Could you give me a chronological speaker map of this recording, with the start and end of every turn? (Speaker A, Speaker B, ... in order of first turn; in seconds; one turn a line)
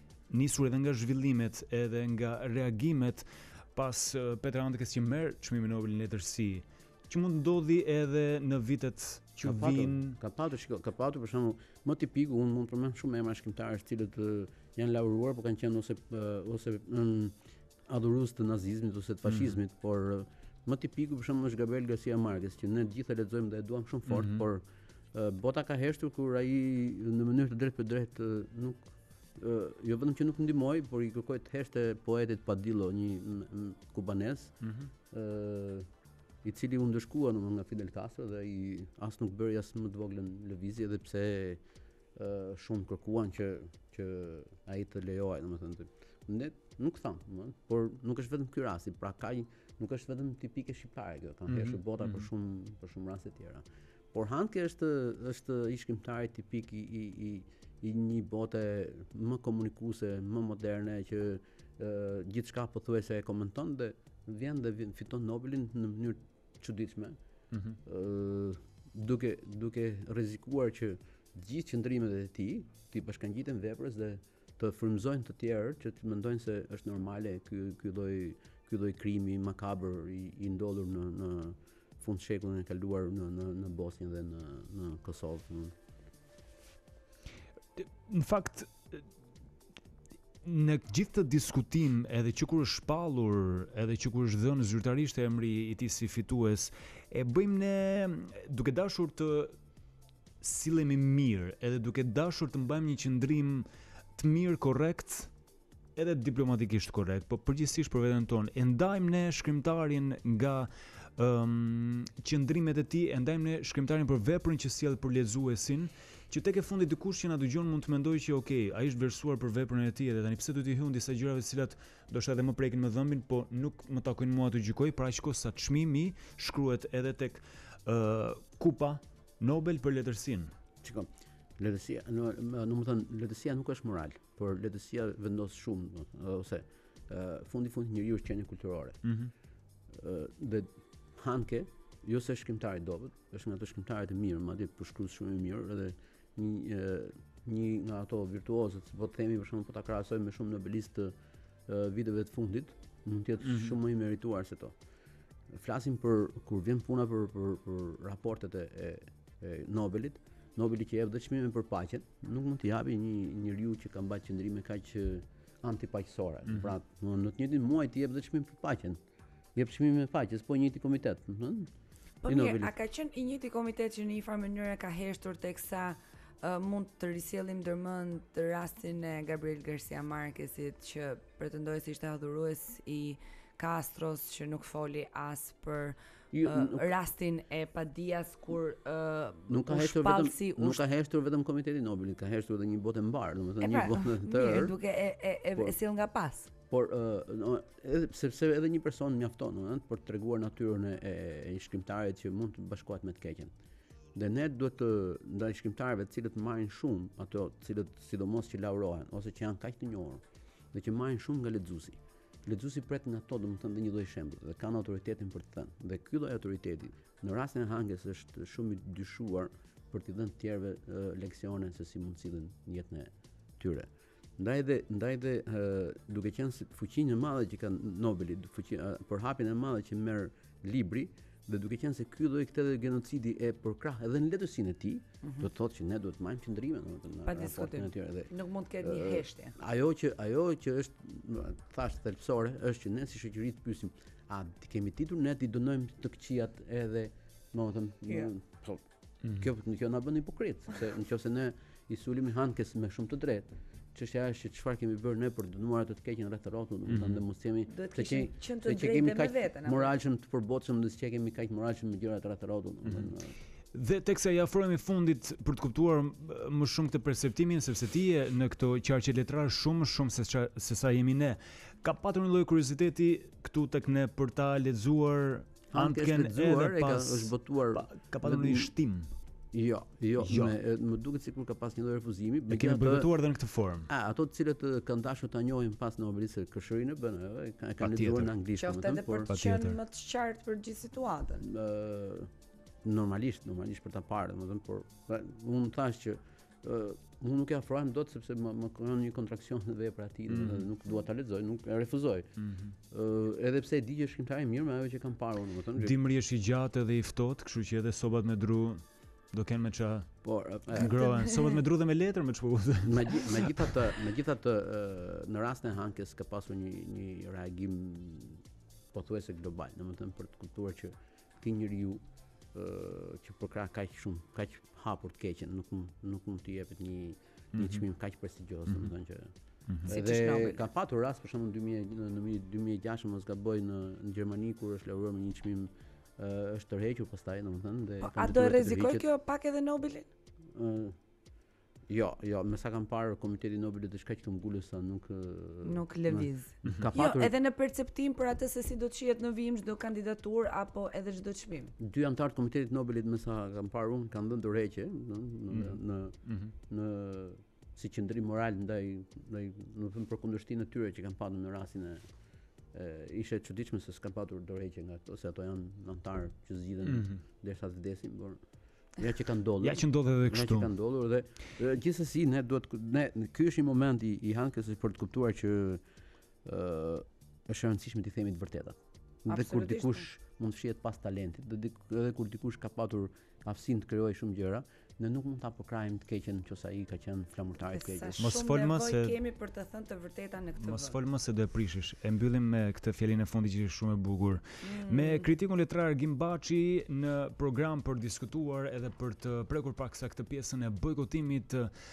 Speaker A: 0.3-10.2
Speaker B: 9.4-34.5
Speaker A: 24.1-24.4
Speaker A: 34.6-34.9
Speaker B: 35.1-35.9
Speaker B: 36.4-41.6
Speaker B: 42.1-67.2
Speaker A: 51.5-51.8
Speaker A: 67.5-67.8
Speaker B: 67.8-85.7
Speaker A: 87.8-89.0
Speaker A: 90.4-99.5
Speaker A: 100.4-105.3
Speaker A: 106.0-130.5
Speaker B: 130.8-139.0
Speaker A: 139.0-139.3
Speaker B: 139.9-151.2
Speaker B: 151.7-154.8
Speaker A: 153.4-153.8
Speaker B: 155.5-169.0
Speaker B: 169.6-171.7
Speaker C: 172.2-190.8
Speaker B: 172.2-172.7
Speaker B: 186.3-186.9
Speaker B: 189.5-194.8
Speaker C: 193.6-196.5
Speaker B: 196.7-203.5
Speaker B: 204.2-263.4
Speaker C: 237.3-239.6
Speaker A: 256.9-257.2
Speaker C: 257.7-259.9
Speaker A: 263.7-279.1
Speaker B: 275.7-278.7
Speaker B: 279.5-283.1
Speaker A: 280.2-280.6
Speaker A: 282.5-283.9
Speaker B: 283.9-289.3
Speaker A: 287.8-288.3
Speaker C: 288.6-291.4
Speaker A: 289.3-289.8
Speaker B: 291.4-292.3
Speaker B: 292.8-302.3
Speaker A: 300.3-300.7
Speaker A: 302.4-302.7
Speaker B: 302.9-305.9
Speaker A: 305.8-313.9
Speaker B: 310.2-311.0
Speaker C: 311.1-311.4
Speaker B: 312.8-339.1
Speaker A: 327.6-327.8
Speaker A: 329.7-329.9
Speaker C: 329.9-330.6
Speaker C: 338.0-340.1
Speaker B: 340.5-341.0
Speaker B: 341.9-347.3
Speaker C: 345.6-351.7
Speaker B: 351.8-362.1
Speaker A: 356.2-356.5
Speaker B: 362.7-375.8
Speaker A: 366.9-367.2
Speaker A: 369.6-370.7
Speaker B: 376.4-388.4
Speaker C: 379.3-380.1
Speaker C: 387.6-391.0
Speaker A: 388.2-389.2
Speaker A: 390.6-401.7
Speaker C: 394.6-395.3